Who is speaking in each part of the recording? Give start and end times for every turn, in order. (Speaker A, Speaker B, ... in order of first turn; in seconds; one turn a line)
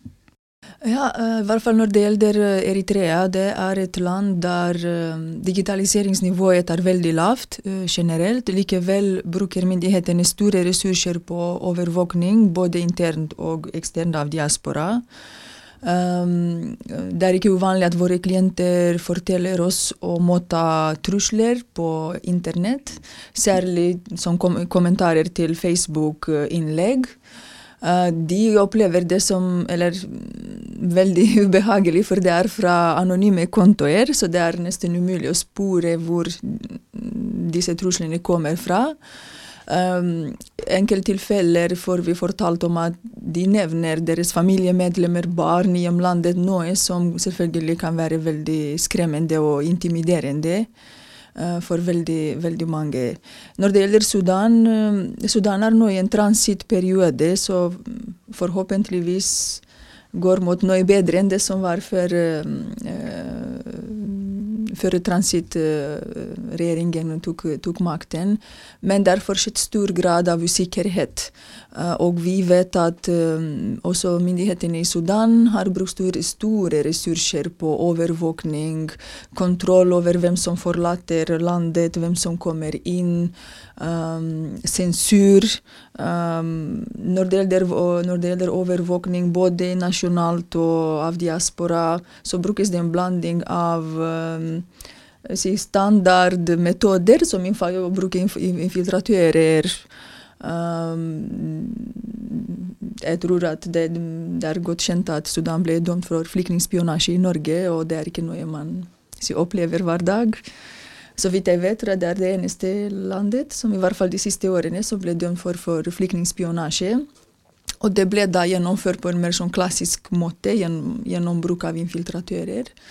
Speaker A: 0.8-15.0
Speaker A: 15.8-27.1
Speaker A: 27.8-39.0
Speaker A: 39.7-50.7
Speaker A: 51.3-59.6
Speaker A: 60.1-94.7
Speaker A: 95.2-99.8
Speaker A: 100.4-110.4
Speaker A: 111.2-117.0
Speaker A: 117.8-122.7